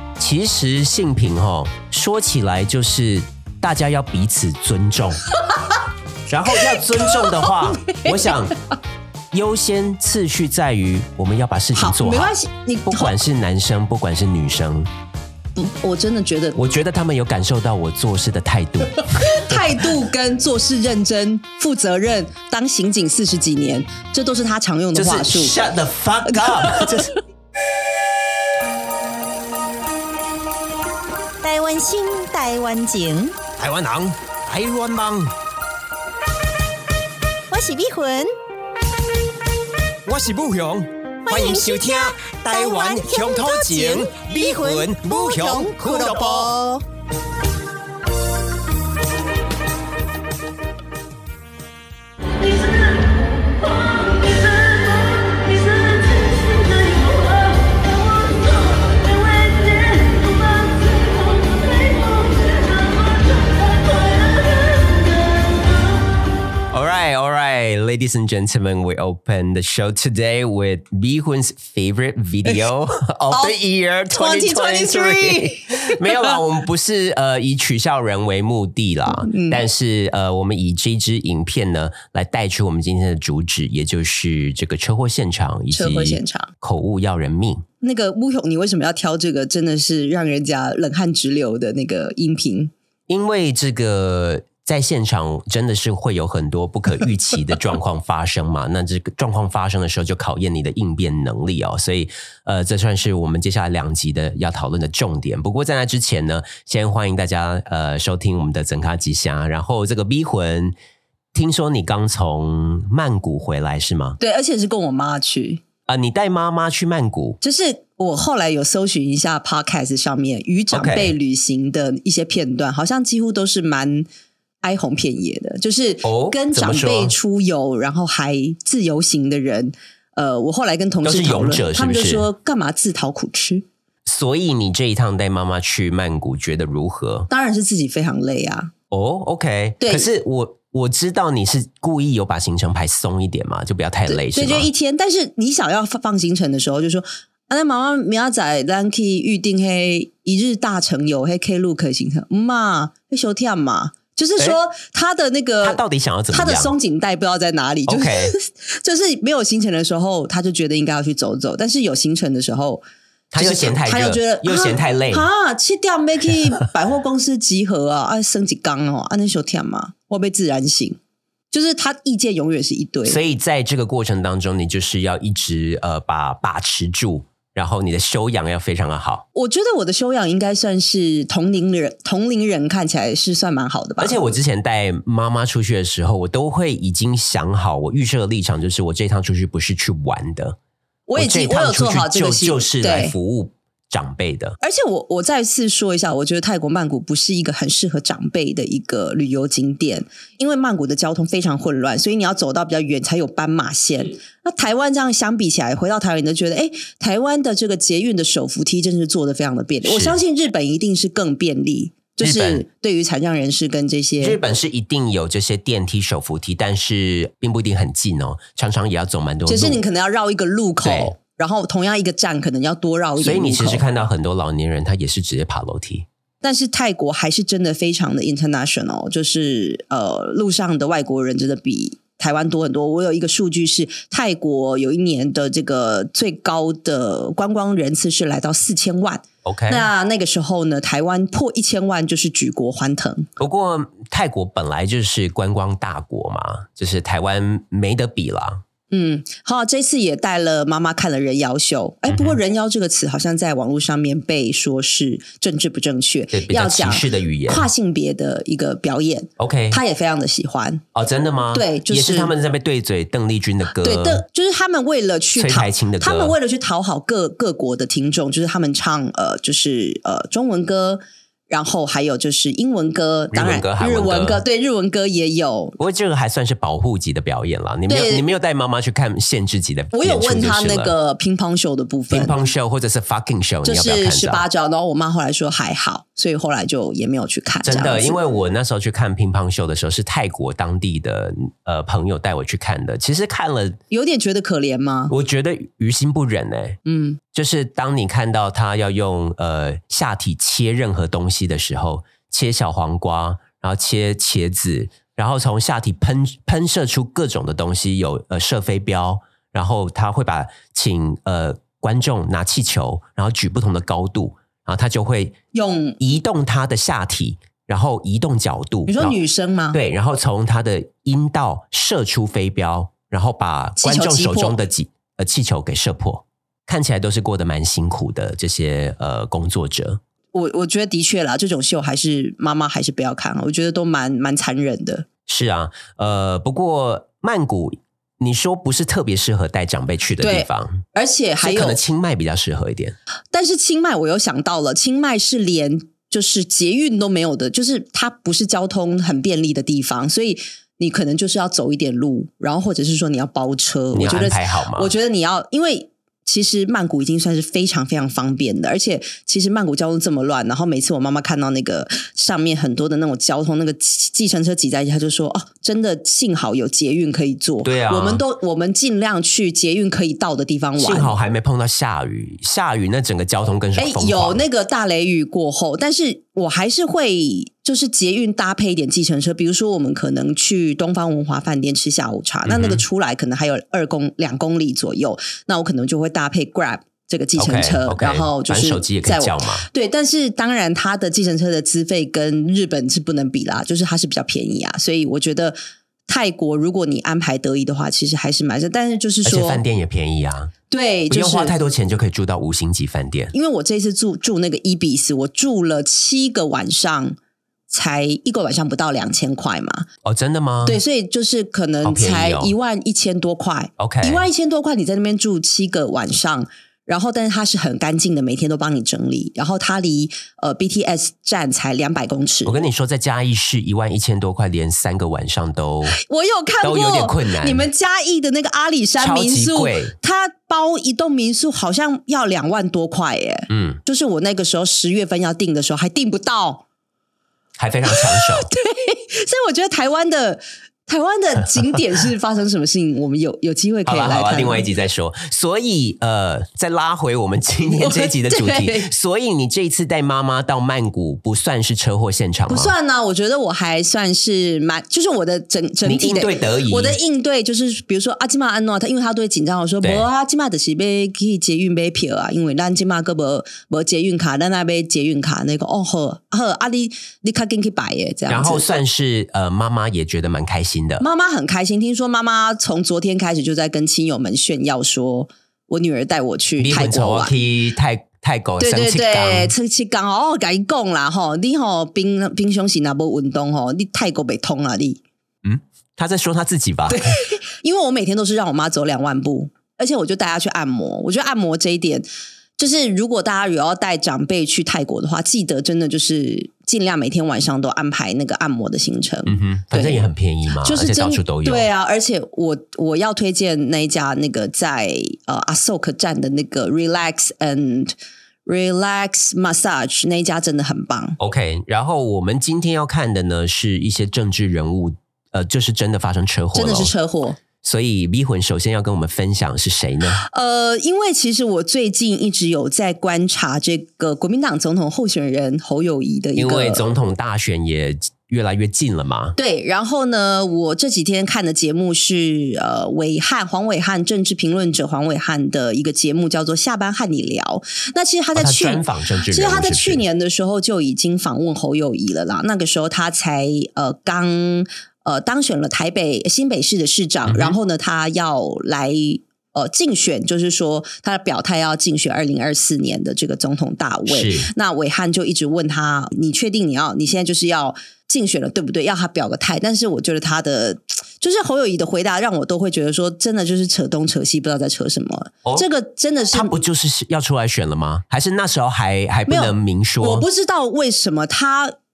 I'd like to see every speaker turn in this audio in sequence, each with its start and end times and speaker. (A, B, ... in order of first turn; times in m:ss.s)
0:00.2-0:05.3 A
0:06.3-0:08.6 A
0:07.1-0:08.4 B
0:09.3-0:12.3 A
0:11.8-0:13.2 B
0:12.9-0:14.9 A
0:15.6-0:16.6 B
0:16.6-0:19.6 A
0:19.2-0:25.6 B
0:25.0-0:27.1 A
0:26.3-0:27.1 B
0:31.4-0:33.4 C
0:33.6-0:35.3 A
0:37.5-0:38.3 C
0:40.1-0:46.5 A
0:41.3-0:46.8 C
0:52.4-1:05.4 D
1:06.7-1:27.6 A
1:13.3-1:13.6 B
1:14.1-1:16.0 B
1:19.1-1:19.6 B
1:25.7-1:26.5 B
1:27.8-1:32.7 B
1:33.1-1:50.8 A
1:51.3-1:54.2 A
1:54.2-1:55.6 B
1:55.9-1:57.4 A
1:57.4-2:04.1 B
2:00.7-2:01.1 A
2:04.6-2:13.6 B
2:06.0-2:07.1 A
2:11.0-2:12.3 A
2:14.1-2:17.3 A
2:17.3-2:18.7 B
2:18.9-2:24.7 A
2:19.8-2:20.1 B
2:24.1-2:35.8 B
2:35.6-2:36.7 A
2:36.3-2:42.8 B
2:37.9-2:38.4 A
2:43.3-2:45.3 A
2:43.4-2:51.0 B
2:51.5-2:53.2 B
2:53.1-2:59.2 A
2:59.3-3:04.2 B
3:04.0-3:10.6 A
3:11.1-3:13.1 B
3:11.2-3:14.6 A
3:14.6-3:34.4 B
3:29.8-3:30.2 A
3:32.2-3:32.6 A
3:34.2-3:39.8 A
3:39.5-3:43.8 B
3:40.8-3:41.1 A
3:43.2-3:46.1 A
3:46.4-4:03.3 B
3:59.4-3:59.9 A
4:03.4-4:08.6 A
4:08.9-4:20.8 B
4:12.1-4:12.4 A
4:16.3-4:17.7 A
4:19.4-4:19.8 A
4:20.9-4:24.2 A
4:21.5-4:22.3 B
4:23.8-4:35.8 B
4:25.4-4:26.4 A
4:33.3-4:34.4 A
4:35.8-4:40.9 A
4:37.9-4:38.2 B
4:39.9-4:42.3 B
4:42.1-4:44.4 A
4:43.6-4:48.2 B
4:47.6-4:53.8 A
4:53.9-4:55.1 B
4:55.1-4:56.8 A
4:56.9-4:57.2 B
4:57.3-5:15.4 A
5:15.5-5:16.0 B
5:16.0-5:19.2 A
5:18.9-5:19.8 B
5:19.7-5:30.0 A
5:23.8-5:24.6 B
5:30.3-5:35.1 B
5:35.3-5:40.8 A
5:40.2-5:41.8 B
5:41.4-5:43.0 A
5:43.3-6:11.1 B
5:53.9-5:54.9 A
6:07.6-6:08.2 A
6:10.8-6:14.4 A
6:13.8-6:35.6 B
6:22.5-6:22.8 A
6:27.4-6:29.7 A
6:36.1-6:39.6 B
6:39.2-6:40.5 A
6:40.7-6:41.5 B
6:41.1-6:43.3 A
6:43.3-6:47.2 B
6:47.7-6:49.9 B
6:50.0-6:50.8 A
6:50.6-7:02.6 B
6:51.8-6:52.5 A
6:53.8-6:54.2 A
7:02.5-7:06.0 A
7:06.0-7:16.6 B
7:06.6-7:07.7 A
7:09.0-7:09.9 A
7:13.5-7:13.8 A
7:17.6-7:18.5 A
7:17.9-7:24.7 B
7:23.9-7:32.7 A
7:27.7-7:28.9 B
7:32.5-7:48.7 B
7:35.8-7:37.0 A
7:48.3-7:51.0 A
7:51.0-7:57.3 B
7:56.6-7:59.5 A
7:58.6-8:05.0 B
8:05.4-8:07.1 A
8:06.9-8:12.1 B
8:12.6-8:20.1 B
8:19.3-8:21.7 A
8:20.6-8:27.9 B
8:28.5-8:31.2 B
8:31.2-8:36.9 A
8:36.6-8:37.4 B
8:37.6-8:40.2 A
8:40.2-8:46.8 B
8:46.4-8:49.4 A
8:49.4-9:26.5 B
8:58.4-9:00.0 A
9:07.3-9:07.6 A
9:14.1-9:14.5 A
9:26.3-9:30.3 A
9:29.3-9:31.8 B